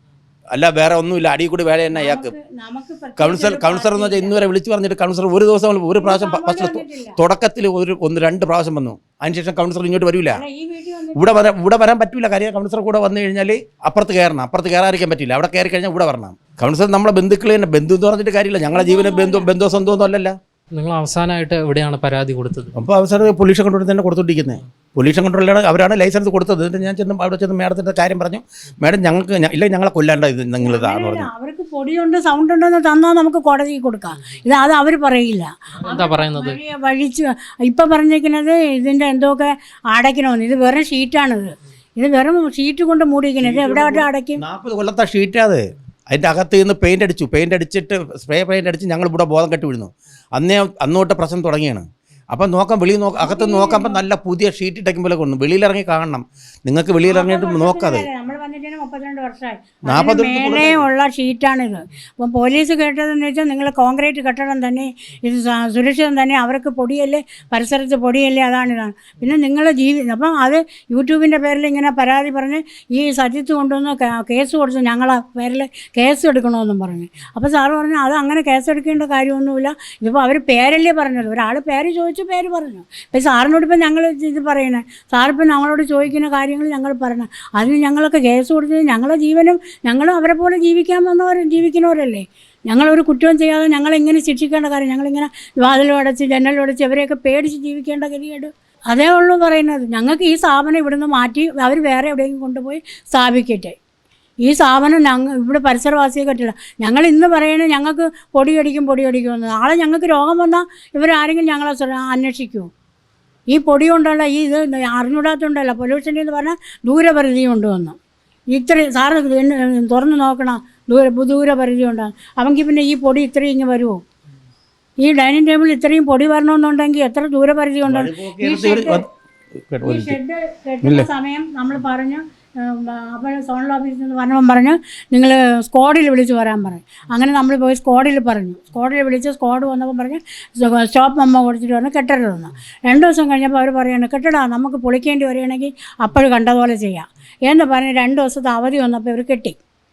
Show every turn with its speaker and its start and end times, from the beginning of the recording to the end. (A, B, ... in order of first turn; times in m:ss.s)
0:00.5-0:02.3 A
0:01.9-0:04.4 B
0:03.2-0:10.4 A
0:06.0-0:07.2 B
0:10.3-0:11.4 B
0:11.1-0:20.4 A
0:18.7-0:19.5 B
0:20.7-0:22.7 C
0:22.7-0:31.3 A
0:30.6-0:44.4 B
0:35.8-0:36.6 C
0:43.4-0:58.1 A
0:53.2-0:54.0 B
0:57.0-1:43.8 B
0:59.9-1:00.8 A
1:44.4-1:52.7 B
1:53.5-1:58.0 B
1:58.5-2:04.0 B
2:05.0-2:09.1 B
2:07.9-2:09.0 A
2:09.7-2:10.2 A
2:09.8-2:29.6 B
2:10.8-2:11.1 A